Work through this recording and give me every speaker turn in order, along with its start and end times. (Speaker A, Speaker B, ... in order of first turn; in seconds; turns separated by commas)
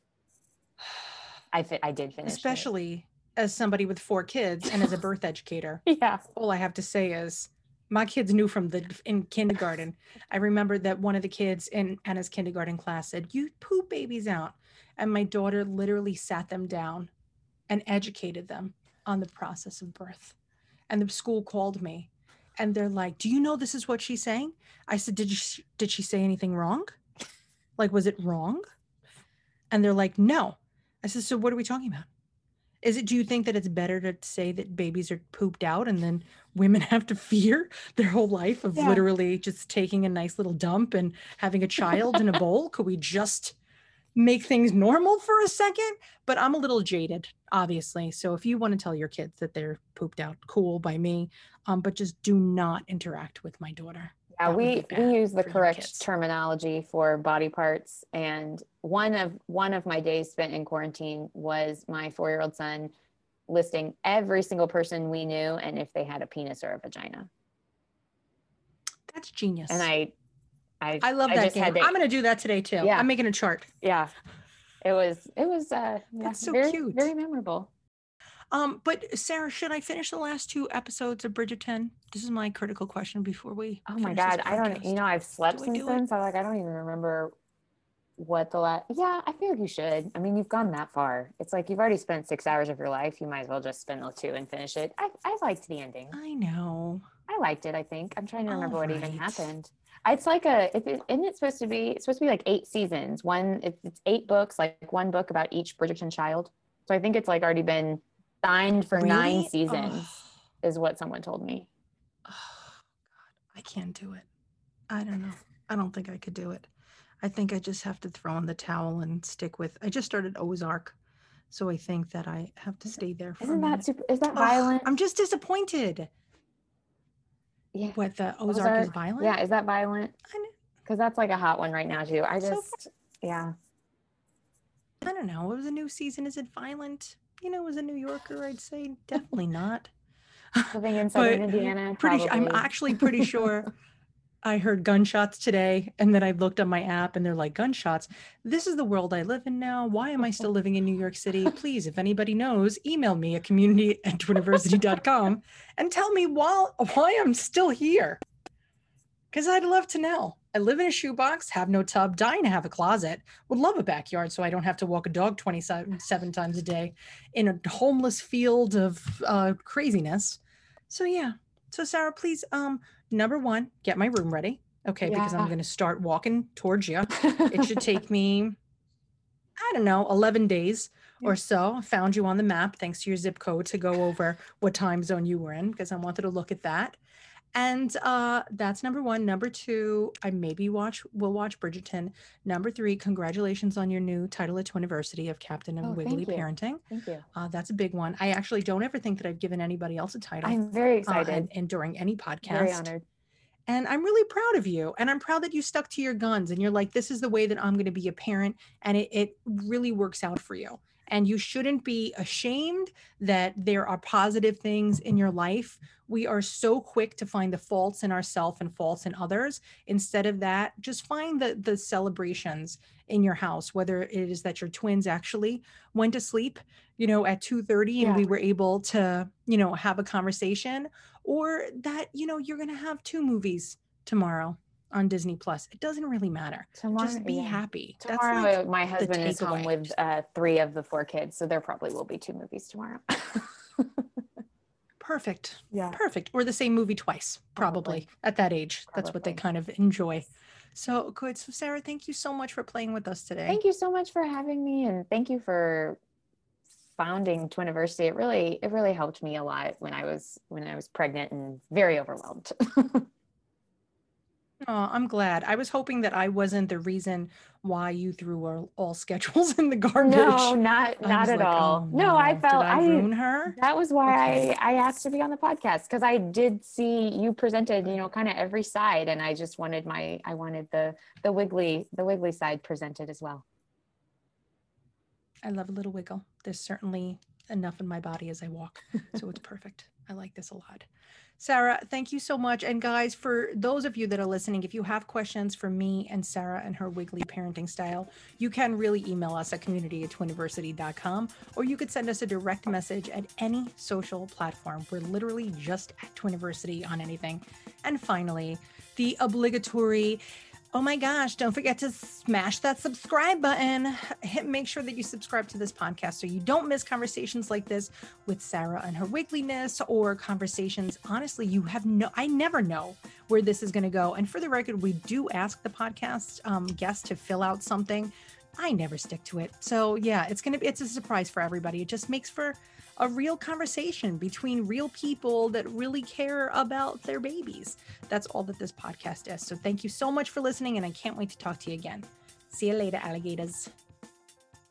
Speaker A: 1.5-2.7, Speaker B: 2.2-17.1, Speaker A: 5.8-6.2, Speaker B: 17.7-20.4, Speaker B: 20.9-26.9, Speaker B: 27.8-28.6, Speaker B: 29.7-32.1, Speaker B: 32.8-43.5, Speaker A: 38.7-39.0, Speaker A: 41.9-42.2, Speaker B: 44.1-56.1, Speaker A: 54.3-62.9, Speaker A: 63.5-67.3, Speaker B: 69.1-69.9, Speaker A: 69.7-70.1, Speaker A: 70.8-71.9, Speaker B: 71.0-73.7, Speaker A: 72.8-73.1, Speaker A: 73.8-74.1, Speaker A: 74.8-77.7, Speaker B: 76.2-77.1, Speaker B: 78.5-85.0, Speaker A: 83.9-87.3, Speaker B: 85.5-86.0, Speaker A: 88.2-96.2, Speaker B: 96.1-97.0, Speaker A: 97.3-110.1, Speaker B: 98.5-99.5, Speaker B: 109.0-110.1, Speaker A: 110.6-111.7, Speaker B: 112.2-112.8, Speaker B: 113.4-114.2, Speaker B: 114.9-116.7, Speaker B: 117.2-120.9, Speaker B: 121.5-126.1, Speaker A: 123.4-124.9, Speaker A: 127.7-130.1, Speaker B: 127.9-129.4, Speaker A: 130.8-133.5, Speaker B: 132.4-132.8, Speaker B: 135.0-139.9, Speaker B: 140.5-143.7, Speaker A: 140.7-143.3, Speaker B: 144.4-158.2, Speaker B: 159.3-178.6, Speaker A: 175.0-175.5, Speaker A: 177.2-177.9, Speaker B: 179.6-187.0, Speaker B: 187.5-196.8, Speaker A: 195.8-197.2, Speaker B: 197.3-202.9, Speaker A: 200.4-201.5, Speaker A: 202.4-203.0, Speaker B: 203.7-239.9, Speaker A: 228.0-228.2, Speaker A: 236.8-244.1, Speaker B: 245.0-253.6, Speaker A: 245.7-246.0, Speaker A: 247.6-248.0, Speaker A: 248.9-249.4, Speaker A: 253.5-256.0, Speaker A: 256.9-263.1, Speaker B: 264.6-274.5, Speaker A: 270.0-283.4, Speaker B: 285.4-290.9, Speaker B: 291.4-310.2, Speaker B: 310.7-343.7